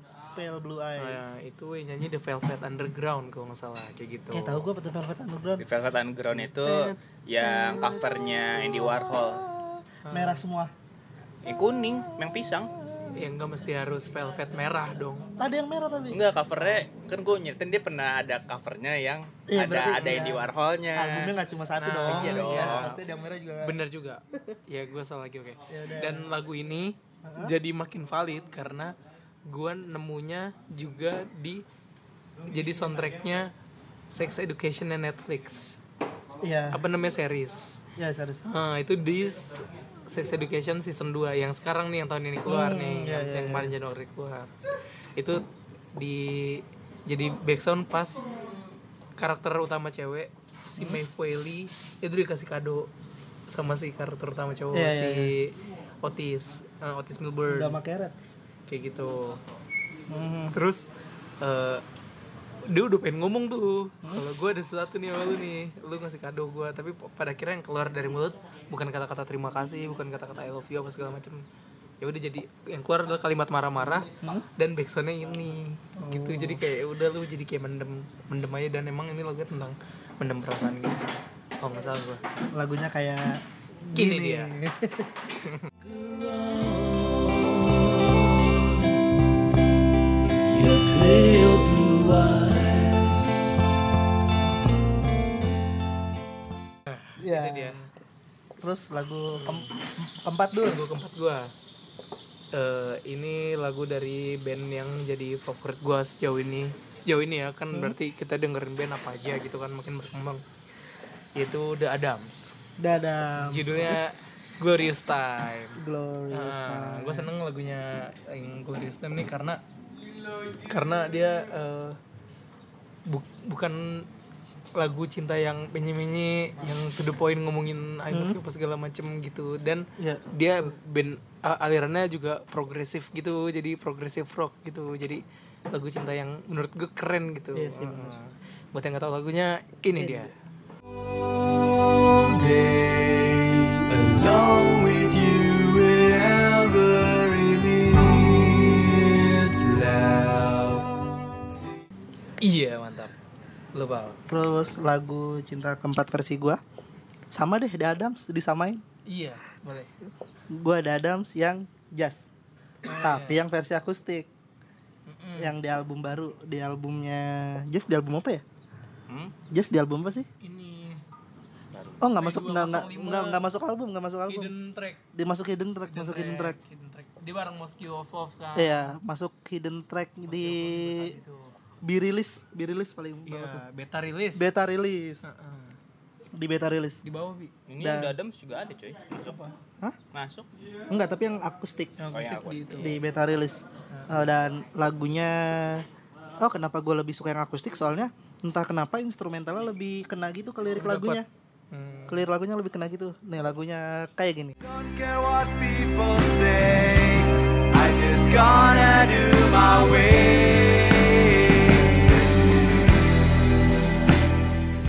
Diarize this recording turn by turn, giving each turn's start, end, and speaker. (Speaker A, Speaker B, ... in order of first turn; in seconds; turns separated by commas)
Speaker A: 0.3-1.2, Speaker B: 1.0-4.7, Speaker A: 4.3-5.6, Speaker C: 5.6-9.4, Speaker B: 6.3-7.9, Speaker A: 8.5-10.7, Speaker B: 10.1-10.4, Speaker C: 11.4-12.7, Speaker B: 13.1-15.3, Speaker A: 15.4-16.2, Speaker C: 16.1-21.3, Speaker A: 19.5-23.8, Speaker B: 21.8-23.0, Speaker C: 22.1-22.9, Speaker B: 23.6-28.9, Speaker A: 25.7-26.3, Speaker A: 27.2-27.5, Speaker B: 29.4-31.6, Speaker B: 32.5-33.5, Speaker B: 34.1-35.8, Speaker A: 36.4-36.8, Speaker B: 36.7-37.8, Speaker A: 38.0-38.4, Speaker B: 38.5-44.5, Speaker A: 42.4-43.7, Speaker B: 45.1-48.2, Speaker B: 49.2-52.9, Speaker B: 53.5-57.8, Speaker A: 54.7-55.3, Speaker A: 57.5-58.1, Speaker B: 58.7-59.4, Speaker A: 60.1-60.5, Speaker B: 60.5-60.9, Speaker B: 61.4-61.8, Speaker B: 62.7-71.4, Speaker B: 72.0-82.2, Speaker A: 76.0-76.6, Speaker A: 82.5-85.3, Speaker B: 83.9-84.6, Speaker B: 85.4-85.7, Speaker D: 85.8-89.0, Speaker D: 90.5-93.5, Speaker B: 96.9-97.9, Speaker A: 97.2-97.8, Speaker A: 98.6-100.8, Speaker B: 99.3-99.7, Speaker B: 100.6-101.5, Speaker B: 102.5-110.4, Speaker A: 107.7-108.0, Speaker B: 111.3-112.5, Speaker A: 112.8-114.0, Speaker B: 113.4-115.8, Speaker A: 115.8-117.3, Speaker B: 116.3-119.6, Speaker B: 120.6-122.0, Speaker B: 123.1-124.1, Speaker B: 124.8-140.3, Speaker A: 128.1-128.4, Speaker A: 130.0-130.2, Speaker A: 137.5-138.2, Speaker A: 140.0-140.3, Speaker D: 141.1-150.8, Speaker B: 152.4-153.1, Speaker B: 153.7-154.2, Speaker A: 154.3-156.6, Speaker A: 157.3-158.8, Speaker B: 159.1-159.9, Speaker A: 160.5-162.3, Speaker B: 162.8-163.4, Speaker A: 162.9-164.3, Speaker B: 165.1-165.5, Speaker A: 165.4-168.4, Speaker C: 169.1-169.3, Speaker A: 169.5-170.3, Speaker B: 170.4-171.0, Speaker C: 171.7-172.0, Speaker A: 172.0-174.5, Speaker B: 172.1-173.4, Speaker B: 174.3-175.0, Speaker A: 175.1-176.6, Speaker B: 175.8-178.9, Speaker A: 178.5-181.2, Speaker B: 180.3-181.5, Speaker A: 181.8-183.6, Speaker B: 183.2-184.5, Speaker A: 184.3-185.2, Speaker B: 185.2-185.8, Speaker A: 186.3-187.0, Speaker B: 187.0-187.5, Speaker C: 187.7-189.4, Speaker A: 187.8-188.2, Speaker A: 189.3-190.0, Speaker C: 190.1-190.5, Speaker A: 190.9-192.0, Speaker B: 192.0-193.0, Speaker C: 192.1-192.9, Speaker A: 192.7-195.8, Speaker B: 193.9-194.3, Speaker A: 196.4-201.2, Speaker B: 200.8-202.2, Speaker A: 202.1-204.6, Speaker D: 204.6-212.1